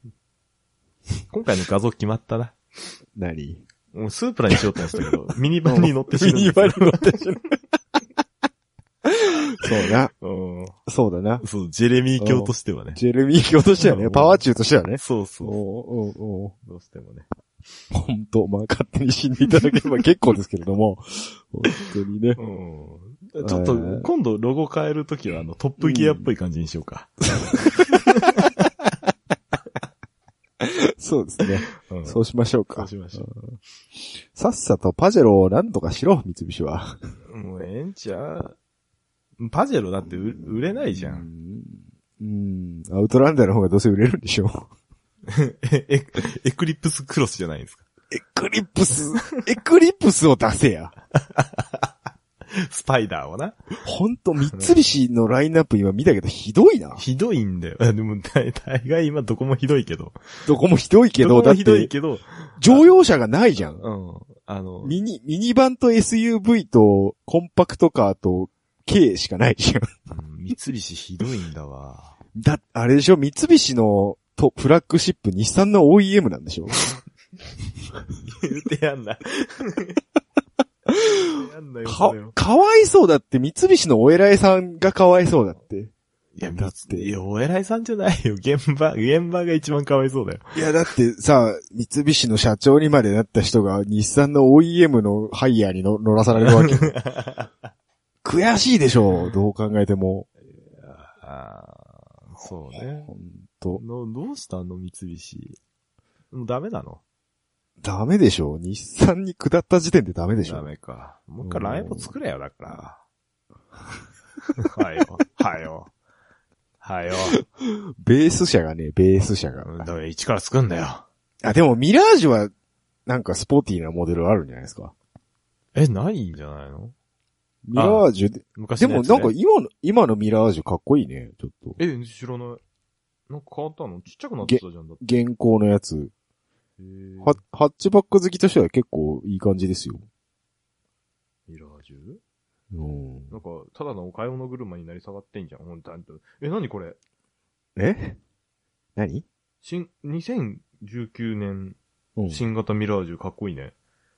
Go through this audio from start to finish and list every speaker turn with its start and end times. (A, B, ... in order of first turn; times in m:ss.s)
0:01.3-0:02.6 A
0:03.1-0:03.6 B
0:03.9-0:07.1 A
0:04.5-0:05.0 B
0:05.6-0:07.4 B
0:09.0-0:10.1 B
0:09.7-0:10.8 A
0:10.8-0:11.4 B
0:11.4-0:13.0 A
0:12.2-0:16.5 B
0:13.8-0:14.4 A
0:15.0-0:15.6 A
0:16.6-0:17.2 A
0:17.9-0:22.4 B
0:19.6-0:19.9 A
0:22.4-0:28.7 A
0:23.4-0:24.1 B
0:25.8-0:26.3 B
0:27.4-0:28.0 B
0:30.6-0:33.6 B
0:31.8-0:32.2 A
0:32.7-0:33.2 A
0:34.3-0:37.0 B
0:37.3-0:38.6 A
0:39.4-0:41.3 A
0:40.4-0:44.7 B
0:45.3-0:47.8 A
0:48.1-0:50.9 B
0:51.2-0:51.9 A
0:52.5-0:53.6 A
0:53.8-0:57.0 B
0:54.5-0:54.9 A
0:57.0-1:00.3 A
1:00.4-1:01.9 B
1:01.2-1:03.0 A
1:02.6-1:03.8 B
1:03.8-1:05.0 A
1:04.8-1:09.9 B
1:10.1-1:12.2 A
1:12.3-1:16.8 B
1:18.2-1:20.0 A
1:20.9-1:21.2 B
1:21.0-1:22.4 A
1:21.8-1:25.9 B
1:26.4-1:30.4 A
1:26.5-1:27.1 B
1:30.5-1:37.0 B
1:36.3-1:37.5 A
1:38.2-1:40.3 B
1:39.1-1:39.4 A
1:40.6-1:43.1 A
1:43.1-1:43.8 B
1:43.8-1:45.6 A
1:46.3-1:47.0 A
1:47.8-1:50.6 B
1:50.4-1:53.0 A
1:51.4-1:52.1 B
1:54.6-1:55.9 A
1:56.8-1:57.4 A
1:57.4-1:59.9 B
1:59.6-2:01.0 A
2:01.4-2:02.5 B
2:03.0-2:04.9 B
2:05.7-2:06.9 A
2:07.6-2:11.8 B
2:07.7-2:09.3 A
2:11.8-2:12.6 A
2:13.3-2:15.0 A
2:14.4-2:16.1 B
2:16.8-2:17.4 A
2:17.2-2:20.0 B
2:21.5-2:22.2 A
2:22.7-2:23.3 B
2:23.3-2:27.0 A
2:27.8-2:28.2 B
2:29.0-2:29.2 B
2:29.6-2:31.8 A
2:32.2-2:32.4 B
2:32.3-2:33.7 A